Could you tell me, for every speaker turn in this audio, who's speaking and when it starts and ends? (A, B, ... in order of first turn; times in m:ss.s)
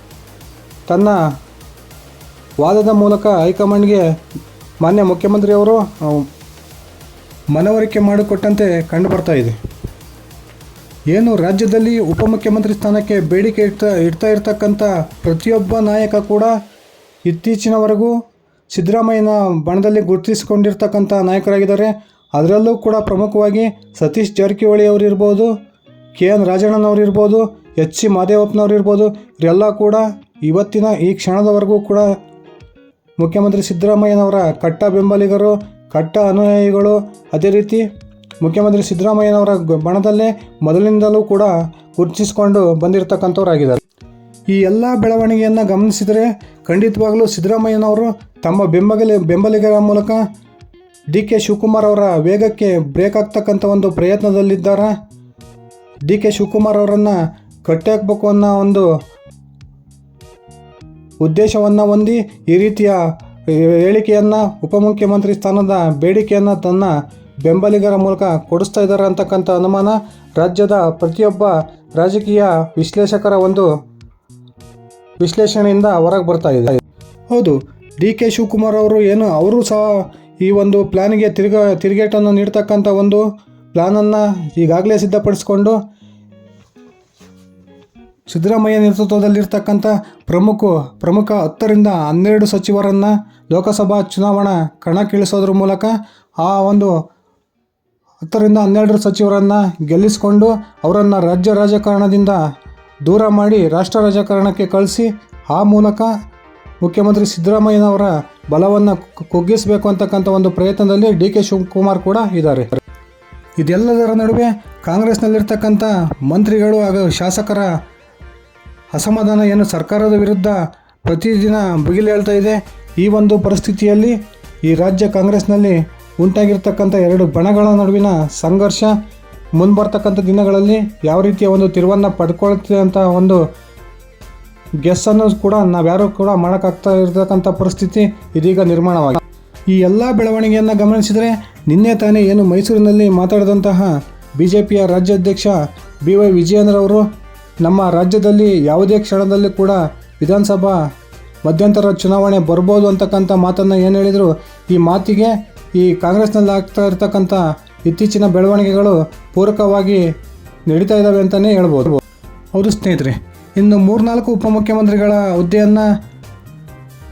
0:00.9-0:01.2 A
0:02.6-0:04.1 A
0:04.8-0:06.3 A
0:07.5-0:09.6 A
0:11.1-0:16.5 A
0:17.2-0:18.1 A
0:18.7-0:25.5 A
0:26.1-0:32.1 A
0:33.2-0:37.9 A
0:38.4-0:43.8 A
0:44.5-0:50.2 A
0:51.1-0:54.9 A
0:56.1-0:58.9 A
1:01.2-1:06.9 A
1:07.4-1:13.7 A
1:15.2-1:16.8 A
1:17.3-1:25.8 A
1:28.3-1:36.9 A
1:38.2-1:42.4 A
1:43.1-1:46.1 A
1:46.8-1:52.8 A
1:53.6-1:57.7 A
1:58.9-2:09.0 A
2:09.6-2:13.4 A
2:14.8-2:27.1 A
2:27.6-2:30.8 A
2:31.4-2:40.0 A
2:40.7-2:42.0 A
2:42.5-2:45.9 A